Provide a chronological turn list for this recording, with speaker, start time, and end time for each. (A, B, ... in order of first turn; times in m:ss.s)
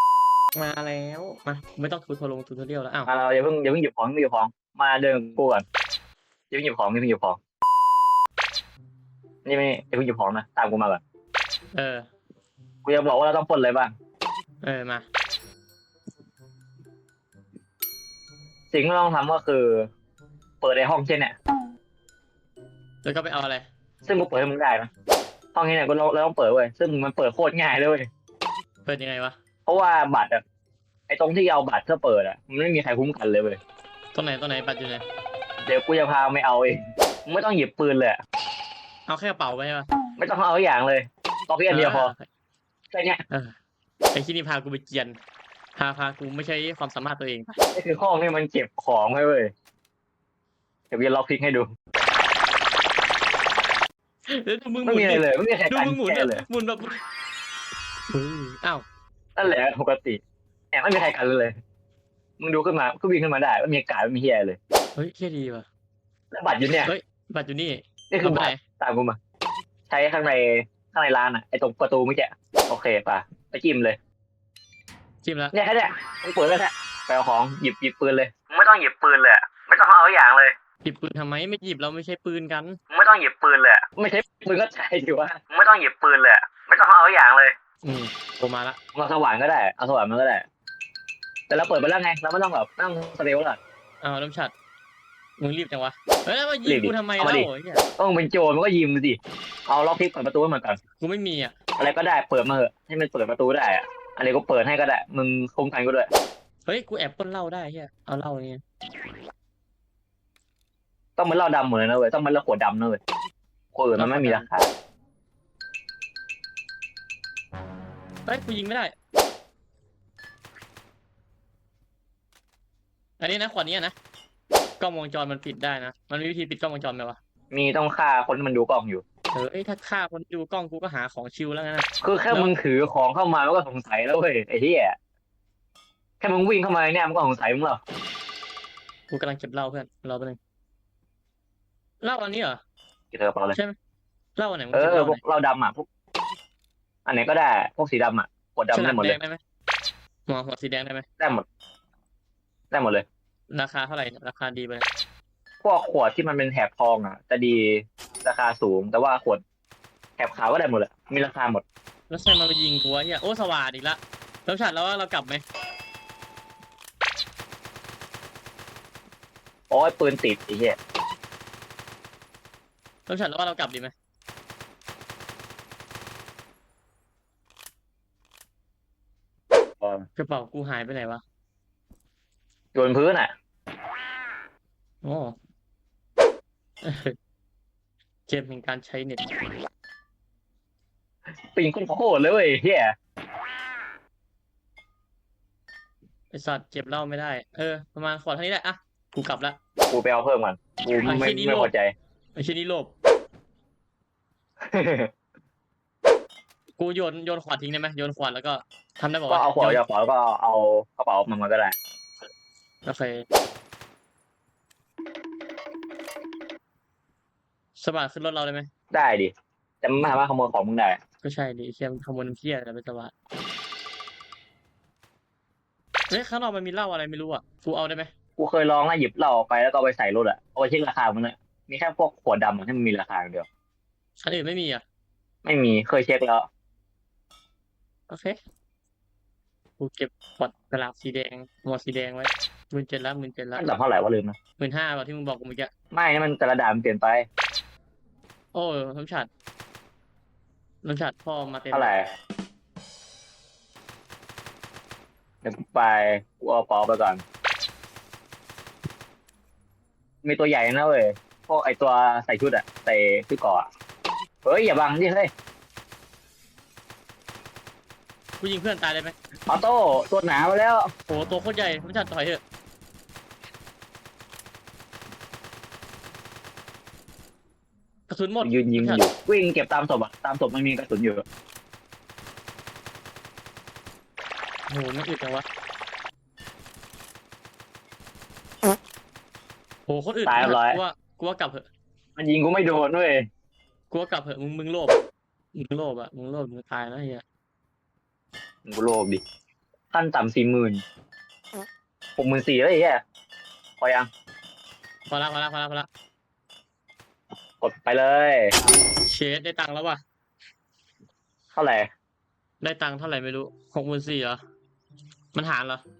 0:00.6-0:03.1 A
0:03.1-0:05.6 B
0:06.5-0:07.4 B
0:09.4-0:11.0 B
0:11.7-0:12.1 A
0:12.8-0:14.0 B
0:14.6-0:15.1 A
0:18.7-0:19.9 B
0:20.6-0:21.4 B
0:23.0-0:23.7 A
0:24.0-0:24.9 B
0:25.6-0:28.1 B
0:28.8-0:29.4 A
0:29.7-0:30.4 B
0:31.1-0:33.6 B
0:34.1-0:35.0 A
0:35.6-0:38.2 B
0:39.1-0:39.9 A
0:40.2-0:42.1 B
0:41.7-0:42.3 A
0:42.9-0:43.2 B
0:43.3-0:43.6 A
0:44.1-0:45.2 A
0:45.8-0:47.5 A
0:47.7-0:49.5 B
0:50.9-0:51.7 B
0:54.3-0:57.0 A
0:54.8-0:56.4 B
0:58.1-0:58.8 A
0:59.4-1:00.2 B
1:00.7-1:01.6 B
1:02.4-1:04.6 B
1:05.0-1:05.7 A
1:06.3-1:06.9 B
1:06.8-1:08.6 A
1:08.1-1:09.2 B
1:09.9-1:14.0 B
1:15.2-1:15.5 A
1:15.5-1:20.5 B
1:20.8-1:22.8 A
1:22.9-1:27.5 B
1:27.8-1:28.8 A
1:29.0-1:30.5 B
1:31.5-1:33.6 B
1:34.0-1:34.5 A
1:35.4-1:37.8 A
1:36.6-1:40.8 B
1:41.0-1:41.6 A
1:41.8-1:46.1 B
1:46.6-1:48.6 A
1:51.2-1:53.0 B
1:53.8-1:54.7 B
1:53.9-1:54.5 A
1:58.3-1:58.9 A
2:03.2-2:04.0 A
2:04.8-2:07.2 A
2:07.5-2:09.0 B
2:09.3-2:12.5 A
2:12.0-2:15.0 B
2:16.2-2:17.8 B
2:19.1-2:20.4 A
2:22.0-2:22.6 A
2:23.1-2:23.6 B
2:24.4-2:25.2 A
2:24.7-2:25.9 B
2:27.1-2:29.2 B
2:28.7-2:29.4 A
2:30.3-2:31.1 A
2:31.2-2:31.4 B
2:32.7-2:33.0 B
2:33.5-2:34.9 A
2:35.6-2:39.4 B
2:40.2-2:41.6 B
2:42.1-2:45.4 A
2:49.7-2:50.8 B
2:53.1-2:53.9 A
2:59.8-3:00.1 B
3:00.2-3:01.2 A
3:02.8-3:03.3 B
3:05.0-3:05.4 A
3:06.8-3:07.2 A
3:08.3-3:09.2 A
3:11.4-3:13.0 B
3:16.3-3:19.6 A
3:19.9-3:21.9 B
3:21.0-3:21.7 A
3:22.4-3:22.9 A
3:24.6-3:25.1 B
3:26.8-3:29.8 A
3:29.3-3:31.8 B
3:32.8-3:33.2 A
3:37.8-3:38.7 A
3:38.9-3:41.0 B
3:41.2-3:43.1 A
3:46.1-3:48.1 A
3:48.4-3:53.5 B
3:54.2-3:54.8 A
3:55.4-3:56.5 B
3:58.1-3:58.4 A
3:59.8-4:03.7 A
4:03.6-4:04.4 B
4:04.6-4:05.7 A
4:05.9-4:07.3 B
4:08.5-4:09.3 A
4:10.8-4:11.9 A
4:11.7-4:12.1 B
4:15.4-4:17.2 B
4:20.2-4:23.7 B
4:24.4-4:25.3 B
4:28.4-4:29.2 A
4:29.5-4:30.9 B
4:31.1-4:32.4 A
4:38.1-4:39.0 A
4:38.4-4:41.2 B
4:44.7-4:45.4 A
4:49.9-4:51.7 A
4:50.3-4:50.8 B
4:52.2-4:53.3 B
4:53.9-4:55.0 A
4:55.6-4:57.2 A
4:58.7-4:59.2 B
4:59.9-5:00.8 B
5:02.2-5:03.0 B
5:03.8-5:04.1 B
5:05.1-5:05.9 A
5:07.6-5:08.5 B
5:09.0-5:10.0 A
5:11.5-5:11.9 B
5:12.6-5:14.4 A
5:15.4-5:15.8 A